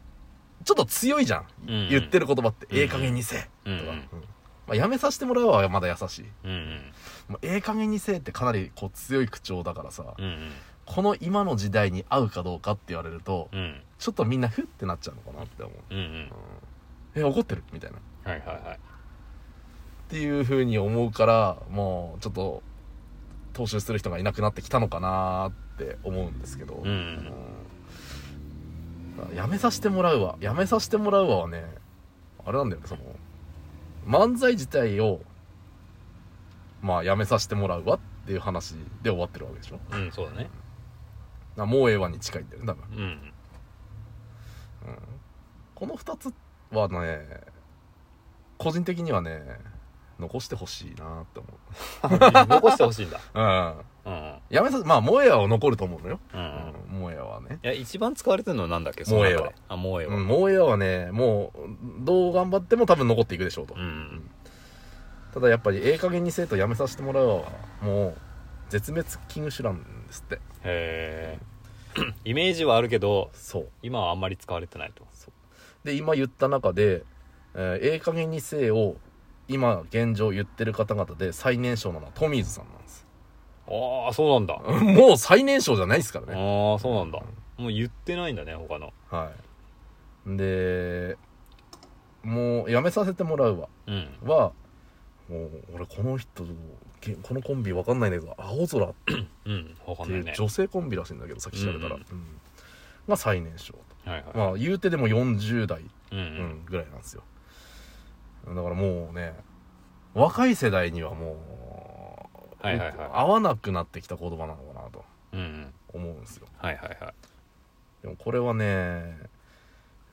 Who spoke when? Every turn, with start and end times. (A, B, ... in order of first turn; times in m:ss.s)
0:00.6-0:06.4 A
0:01.7-0:04.1 B
0:06.4-0:06.9 B
0:07.3-0:10.2 A
0:10.2-0:10.6 B
0:10.8-0:16.4 A
0:13.5-0:13.8 B
0:15.9-0:16.3 B
0:17.1-0:18.0 A
0:18.2-0:18.8 B
0:20.1-0:22.6 A
0:23.5-0:27.7 A
0:26.8-0:27.3 B
0:29.2-0:31.8 A
0:32.4-0:33.2 A
0:34.0-0:35.3 A
0:36.8-0:39.9 A
0:39.9-0:40.5 B
0:41.6-0:42.9 A
0:42.9-0:43.3 B
0:44.8-0:45.2 A
0:45.8-0:47.5 A
0:48.6-0:49.7 A
0:50.2-0:53.9 A
0:51.9-0:53.3 B
0:54.0-0:54.4 B
0:54.5-0:57.6 A
0:56.3-0:56.7 B
0:57.6-1:00.4 B
0:59.1-0:59.6 A
1:00.1-1:04.3 A
1:03.8-1:04.2 B
1:05.3-1:10.4 A
1:10.6-1:11.4 B
1:12.0-1:15.1 B
1:13.4-1:13.7 A
1:15.8-1:23.0 A
1:23.7-1:24.6 B
1:24.6-1:27.2 A
1:26.3-1:28.9 B
1:29.1-1:29.4 A
1:30.2-1:31.2 A
1:32.2-1:33.7 A
1:33.9-1:34.2 B
1:34.2-1:34.6 A
1:35.3-1:39.1 A
1:39.2-1:40.4 B
1:40.0-1:42.4 A
1:41.5-1:42.0 B
1:43.1-1:47.2 A
1:44.0-1:44.6 B
1:46.1-1:46.5 B
1:48.4-1:49.4 A
1:50.1-1:55.1 A
1:52.6-1:53.2 B
1:55.3-1:55.8 B
1:55.9-1:56.5 A
1:56.6-1:57.2 B
1:58.0-1:59.3 A